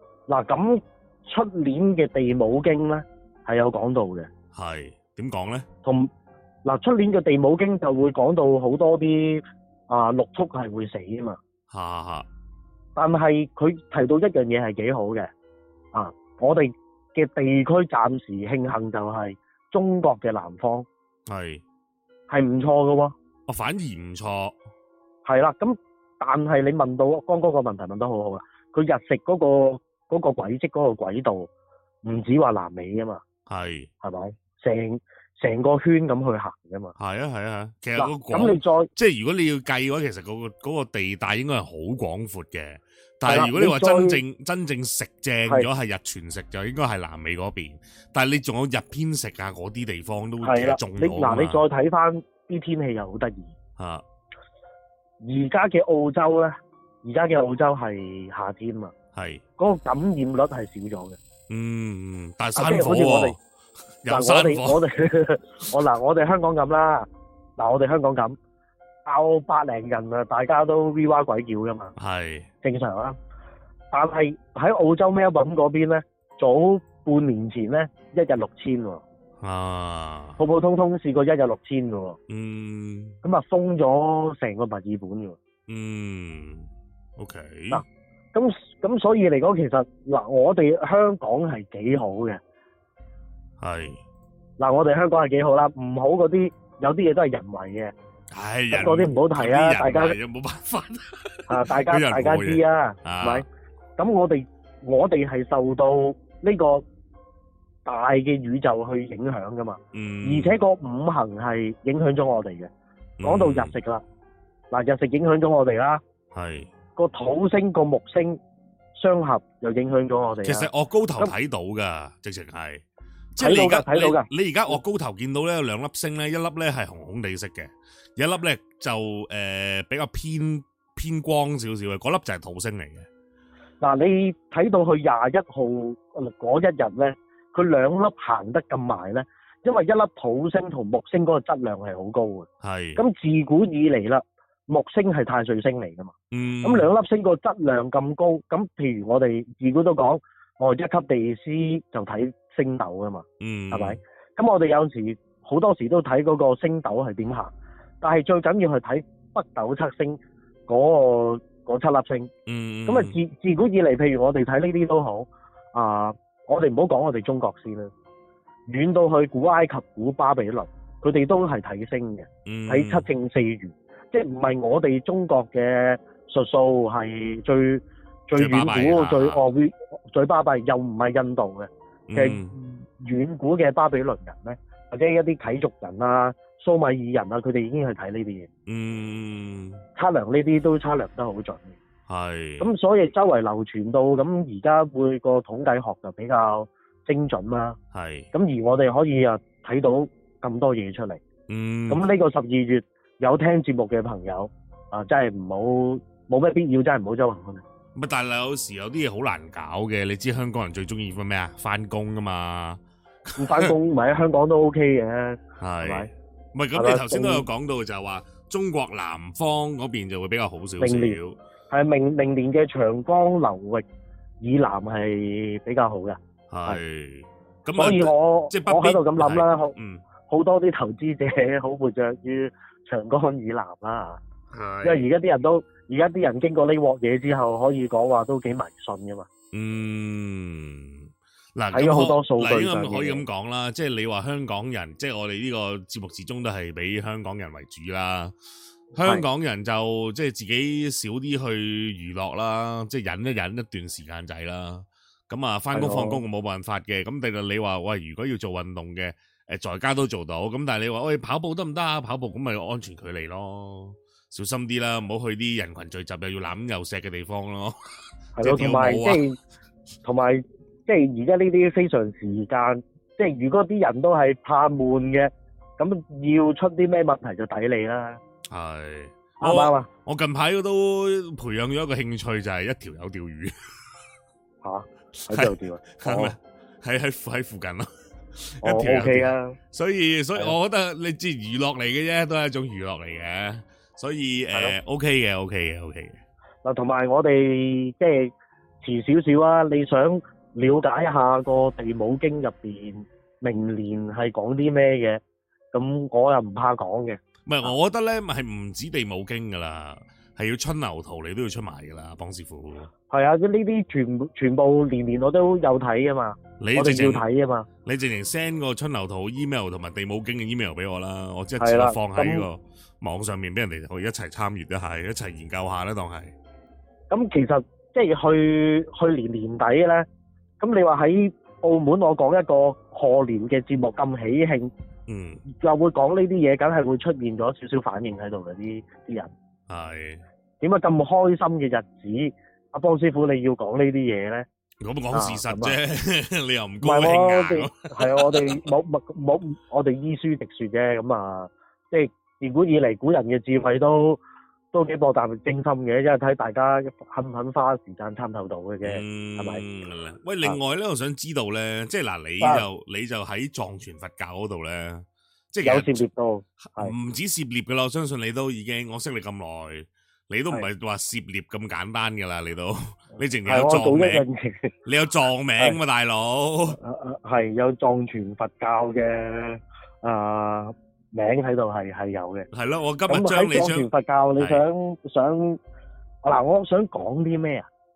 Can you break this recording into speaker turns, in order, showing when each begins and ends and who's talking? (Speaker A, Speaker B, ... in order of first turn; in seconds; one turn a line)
Speaker A: 0.3-4.3
Speaker B: 4.5-5.7
Speaker A: 5.8-6.1
Speaker A: 6.7-11.4
Speaker B: 11.7-12.3
Speaker A: 13.0-15.3
Speaker A: 15.9-20.9
Speaker B: 21.3-21.6
Speaker A: 22.3-23.1
Speaker B: 23.5-24.6
Speaker A: 25.2-31.5
Speaker A: 32.0-33.2
Speaker B: 33.5-33.9
Speaker A: 34.0-37.0
Speaker B: 37.0-51.6
Speaker A: 38.0-38.9
Speaker A: 43.3-44.2
Speaker A: 50.4-53.5
Speaker B: 53.8-54.0
Speaker A: 55.2-58.9
Speaker B: 59.1-59.4
Speaker A: 59.6-61.2
Speaker B: 61.5-63.4
Speaker A: 62.6-63.4
Speaker B: 64.0-64.8
Speaker A: 64.1-68.4
Speaker A: 69.0-71.9
Speaker B: 72.0-72.5
Speaker A: 72.6-73.2
Speaker A: 73.9-79.0
Speaker B: 79.4-80.4
Speaker A: 80.4-82.2
Speaker B: 82.3-83.2
Speaker A: 83.2-85.4
Speaker B: 85.7-87.8
Speaker A: 87.7-92.4
Speaker B: 93.6-94.0
Speaker A: 94.6-97.9
Speaker B: 98.3-103.4
Speaker A: 98.7-100.2
Speaker A: 101.5-103.5
Speaker A: 104.0-106.8
Speaker A: 107.8-112.7
Speaker B: 109.9-110.6
Speaker B: 113.2-113.7
Speaker A: 113.2-114.0
Speaker A: 114.7-116.0
Speaker B: 116.3-116.7
Speaker A: 117.0-118.4
Speaker A: 119.0-121.3
Speaker B: 120.4-122.8
Speaker B: 123.3-133.1
Speaker A: 123.4-124.3
Speaker A: 133.8-157.5
Speaker B: 142.6-143.0
Speaker B: 146.3-146.9
Speaker B: 153.4-154.0
Speaker A: 158.0-162.3
Speaker B: 162.5-163.2
Speaker A: 162.9-167.9
Speaker A: 168.7-188.5
Speaker B: 172.5-173.1
Speaker B: 178.4-179.4
Speaker B: 182.1-182.5
Speaker B: 188.7-189.8
Speaker A: 190.0-191.8
Speaker B: 192.1-192.7
Speaker A: 192.6-197.8
Speaker B: 197.9-198.3
Speaker A: 198.3-201.2
Speaker B: 201.5-202.0
Speaker A: 201.9-207.6
Speaker B: 207.9-213.7
Speaker A: 213.4-216.1
Speaker B: 215.6-221.4
Speaker A: 216.8-217.4
Speaker A: 220.8-221.2
Speaker A: 221.7-223.8
Speaker A: 224.4-226.8
Speaker B: 226.5-230.0
Speaker A: 227.8-229.8
Speaker A: 230.3-234.2
Speaker B: 234.5-235.1
Speaker A: 234.8-239.3
Speaker B: 239.5-248.3
Speaker A: 241.7-243.2
Speaker B: 248.9-267.8
Speaker A: 255.7-256.2
Speaker A: 268.4-269.4
Speaker B: 268.4-269.2
Speaker A: 270.0-278.2
Speaker B: 278.5-283.8
Speaker A: 279.4-279.9
Speaker A: 284.6-286.4
Speaker B: 285.2-296.2
Speaker A: 288.6-289.6
Speaker A: 296.6-305.2
Speaker A: 305.7-307.7
Speaker B: 307.5-312.9
Speaker A: 313.1-317.7
Speaker B: 316.6-317.2
Speaker B: 317.9-326.3
Speaker A: 321.6-322.5
Speaker A: 327.1-330.1
Speaker A: 330.6-334.7
Speaker B: 335.1-335.4
Speaker A: 335.5-339.3
Speaker B: 339.7-340.2
Speaker A: 340.6-344.5
Speaker B: 344.8-348.6
Speaker A: 345.1-345.8
Speaker A: 346.8-354.2
Speaker A: 354.7-359.6
Speaker B: 358.8-366.0
Speaker A: 362.4-362.7
Speaker A: 365.6-366.9
Speaker B: 366.8-374.2
Speaker A: 373.4-374.7
Speaker B: 374.9-376.8
Speaker A: 376.8-382.5
Speaker B: 382.5-383.9
Speaker A: 383.1-385.6
Speaker A: 386.2-387.7